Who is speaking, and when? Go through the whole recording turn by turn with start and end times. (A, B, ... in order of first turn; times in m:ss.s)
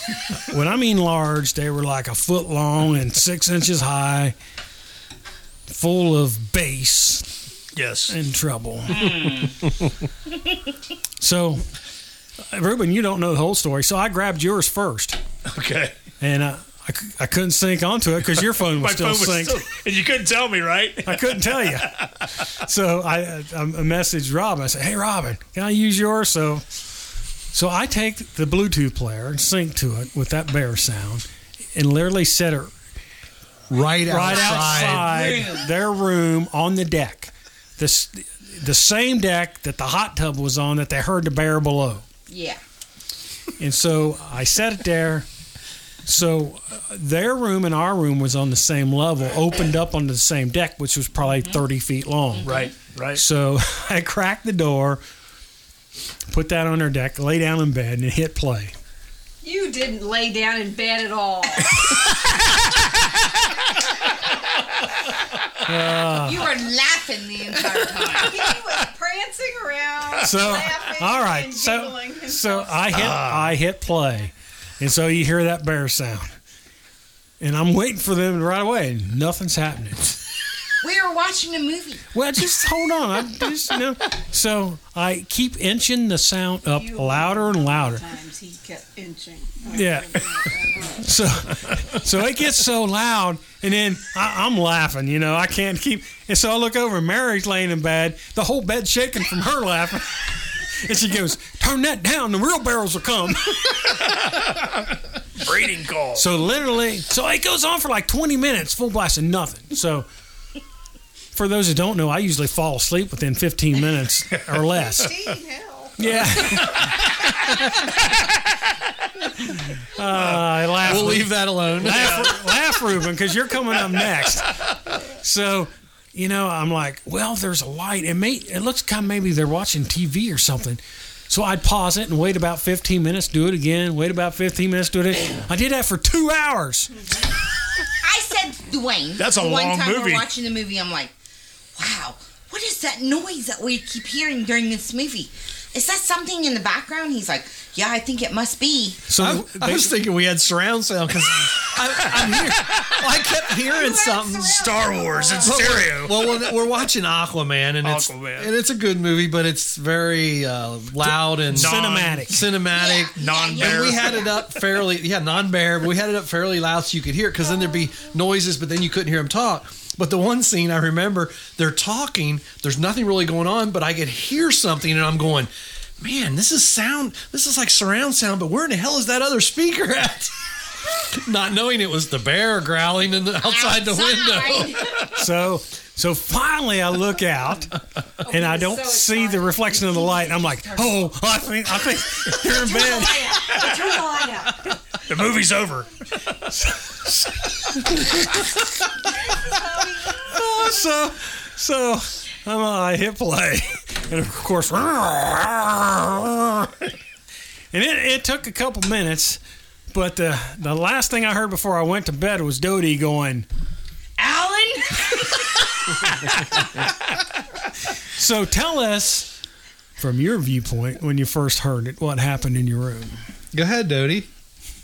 0:00.3-0:04.4 A
0:05.7-0:07.3 A
0:07.7-0:08.1 B
0:08.1-0:09.2 A
0:08.9-0:09.5 C
0:11.2-0:11.6 A
0:12.5-0:15.2 A
0:15.5-0:16.0 B
0:16.2-0:19.6 A
0:18.6-0:22.1 B
0:21.0-0:26.6 A
0:27.5-0:32.7 A
0:33.7-0:35.2 D
0:34.0-0:42.0 A
0:34.3-0:35.6 C
0:42.3-0:42.6 C
0:43.6-0:45.3 A
0:46.0-0:52.5 A
0:51.2-0:51.6 C
0:52.4-0:53.2 B
0:53.1-0:55.0 A
0:56.3-0:58.7 A
0:59.4-1:02.0 E
1:05.6-1:06.5 A
1:06.2-1:08.4 C
1:08.1-1:12.6 E
1:10.2-1:16.4 A
1:12.9-1:13.6 B
1:17.4-1:20.1 A
1:20.8-1:22.0 C
1:22.1-1:28.1 A
1:26.9-1:27.2 E
1:27.7-1:29.8 E
1:29.6-1:43.9 A
1:30.4-1:30.8 E
1:43.8-1:44.8 B
1:45.4-1:46.2 B
1:46.1-1:50.1 A
1:51.3-1:55.1 A
1:55.2-1:55.9 E
1:56.0-1:57.6 A
1:56.6-1:58.3 B
1:59.4-2:16.9 A
2:00.8-2:02.2 D
2:01.8-2:02.3 B
2:18.0-2:21.1 C
2:19.2-2:20.3 B
2:21.8-2:29.0 C
2:29.1-2:29.9 A
2:29.2-2:34.7 D
2:32.2-2:32.5 A
2:34.5-2:36.4 B
2:35.3-3:00.3 D
2:37.8-2:38.5 B
2:41.0-2:42.5 A
2:41.5-2:42.1 B
2:42.7-2:44.4 C
2:43.2-2:44.2 B
3:00.9-3:04.9 D
3:03.4-3:05.0 C
3:05.1-3:07.7 A
3:08.2-3:13.4 A
3:08.3-3:09.4 E
3:13.5-3:13.8 B
3:13.8-3:14.5 E
3:15.0-3:16.4 B
3:16.5-3:18.2 A
3:20.2-3:26.8 A
3:27.7-3:29.4 A
3:29.9-3:33.4 A
3:34.2-3:35.2 C
3:38.1-3:39.3 A
3:40.0-3:43.2 A
3:43.5-3:44.3 D